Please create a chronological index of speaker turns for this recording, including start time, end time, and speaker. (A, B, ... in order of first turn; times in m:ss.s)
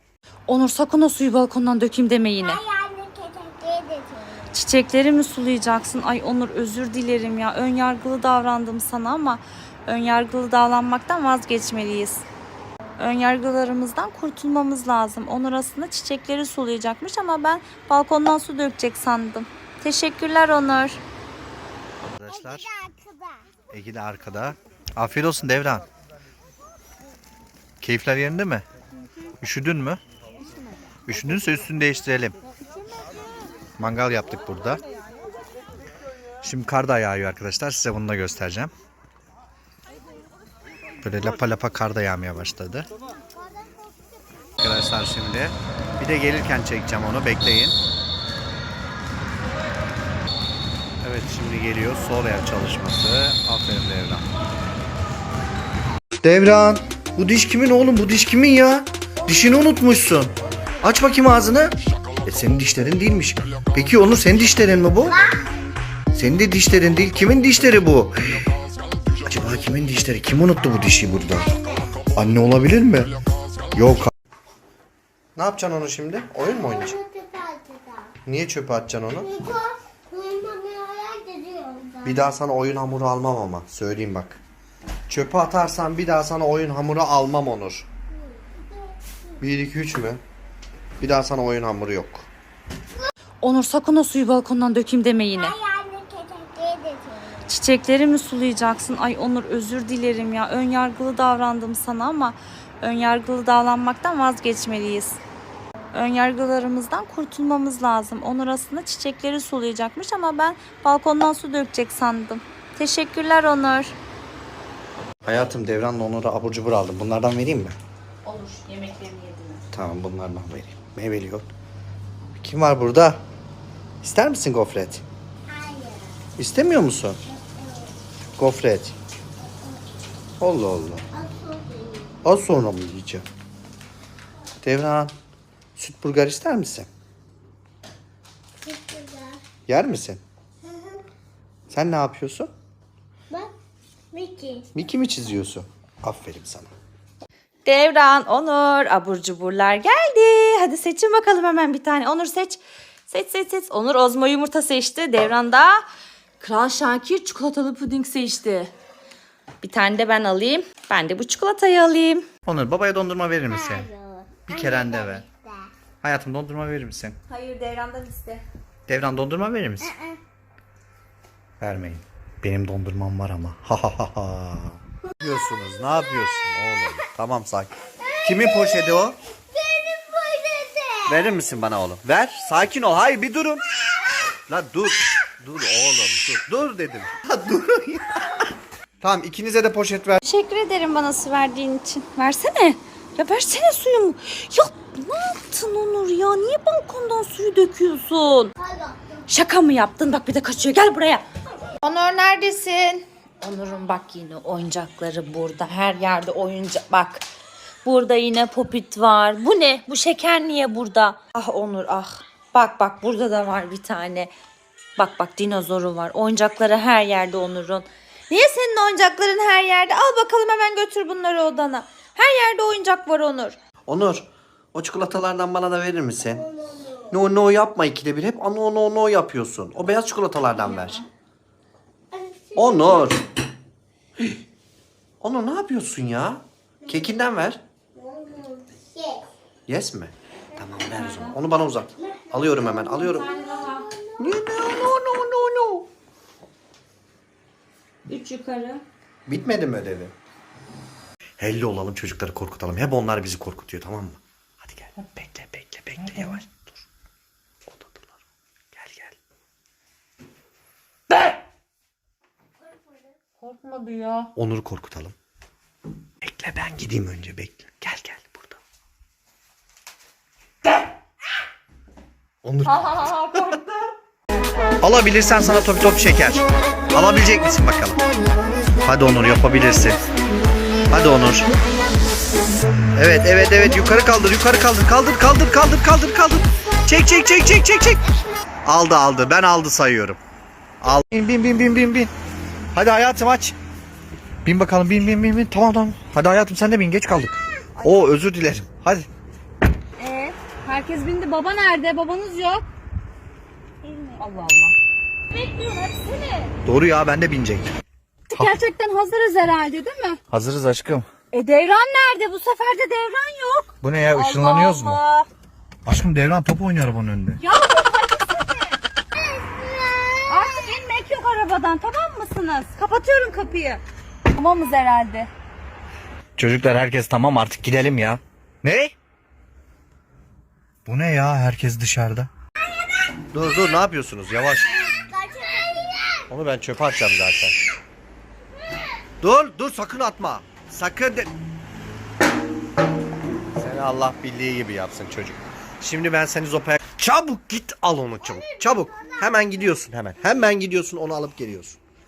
0:00.5-0:02.6 A
0:02.4-0:04.6 B
0:04.5-0:12.2 A
0:13.0-0:21.0 A
0:22.2-0:22.7 C
0:22.5-0:23.4 B
0:23.7-0:25.8 C
0:27.8-0:28.6 C
0:29.4-0:30.0 C
0:31.1-0:32.4 C
0:33.8-0:34.8 C
0:36.4-0:38.7 C
0:41.0-0:42.9 C
0:43.3-0:44.1 B
0:44.6-0:47.8 C
0:51.0-0:54.3 C
0:56.2-1:05.2 C
1:06.1-1:08.2 C
1:09.2-1:11.5 C
1:12.2-1:13.1 C
1:13.7-1:14.1 C
1:15.4-1:17.0 C
1:16.5-1:18.1 B
1:18.2-1:19.3 C
1:19.3-1:22.2 B
1:22.0-1:24.4 C
1:25.1-1:27.9 C
1:29.4-1:30.2 C
1:31.0-1:32.3 C
1:33.4-1:35.5 A
1:35.3-1:37.4 B
1:37.5-1:45.2 A
1:45.9-1:54.0 A
1:55.2-1:57.8 C
1:58.2-1:59.6 A
1:59.7-2:01.5 C
2:02.4-2:03.2 C
2:04.0-2:05.0 C
2:05.5-2:06.1 B
2:06.4-2:07.2 C
2:07.4-2:07.9 B
2:08.4-2:09.0 C
2:10.4-2:11.0 C
2:11.1-2:12.2 B
2:12.2-2:13.2 C
2:14.6-2:15.1 C
2:15.8-2:16.9 C
2:18.6-2:19.4 B
2:19.7-2:20.2 C
2:21.7-2:22.5 C
2:24.1-2:24.7 B
2:24.7-2:26.7 C
2:27.6-2:35.8 A
2:36.4-2:38.7 A
2:39.6-2:42.2 A
2:42.4-2:43.9 C
2:43.5-2:45.7 B
2:44.4-2:45.2 C
2:46.0-2:47.2 C
2:47.3-2:48.4 A
2:48.9-2:49.9 C
2:51.6-2:59.2 C
2:59.5-3:01.2 B
3:01.1-3:03.6 C
3:04.5-3:08.5 C
3:09.0-3:10.2 C
3:10.2-3:18.5 A
3:18.6-3:19.2 B
3:19.3-3:21.2 A
3:21.8-3:27.2 A
3:27.8-3:34.3 A
3:35.0-3:43.6 A
3:43.9-3:46.4 C
3:46.4-3:47.0 B
3:47.1-3:51.0 C
3:50.6-3:51.0 A
3:52.1-3:53.1 B
3:52.6-3:53.2 C
3:55.2-3:57.6 C
3:57.9-3:59.2 B
3:59.7-4:03.3 C
4:01.0-4:01.3 A
4:02.1-4:04.4 B
4:03.0-4:03.8 A
4:04.2-4:05.8 C
4:08.0-4:08.8 A
4:09.3-4:10.1 C
4:11.4-4:16.7 C
4:16.0-4:16.4 A
4:17.7-4:18.1 C
4:18.7-4:19.2 C
4:23.4-4:24.3 A
4:24.3-4:25.2 C
4:26.2-4:28.6 C
4:32.4-4:33.6 C
4:32.8-4:33.5 A
4:34.8-4:38.0 C
4:38.8-4:40.0 C
4:40.9-4:41.5 C
4:43.0-4:48.0 C
4:48.6-4:50.2 C
4:50.8-4:52.1 C
4:52.7-4:53.6 C
4:54.4-4:59.1 C
5:00.0-5:02.6 A
5:04.2-5:04.7 A
5:05.3-5:06.5 A
5:06.6-5:07.7 C
5:08.3-5:10.2 A
5:10.3-5:11.1 C
5:11.3-5:15.3 A
5:13.8-5:15.0 C
5:15.8-5:17.4 C
5:17.4-5:18.7 A
5:20.3-5:23.8 A
5:24.3-5:25.3 A
5:26.4-5:28.9 C
5:30.8-5:32.3 C
5:33.3-5:34.7 C
5:34.9-5:36.2 B
5:36.3-5:37.6 C
5:39.2-5:41.3 C
5:43.6-5:51.8 C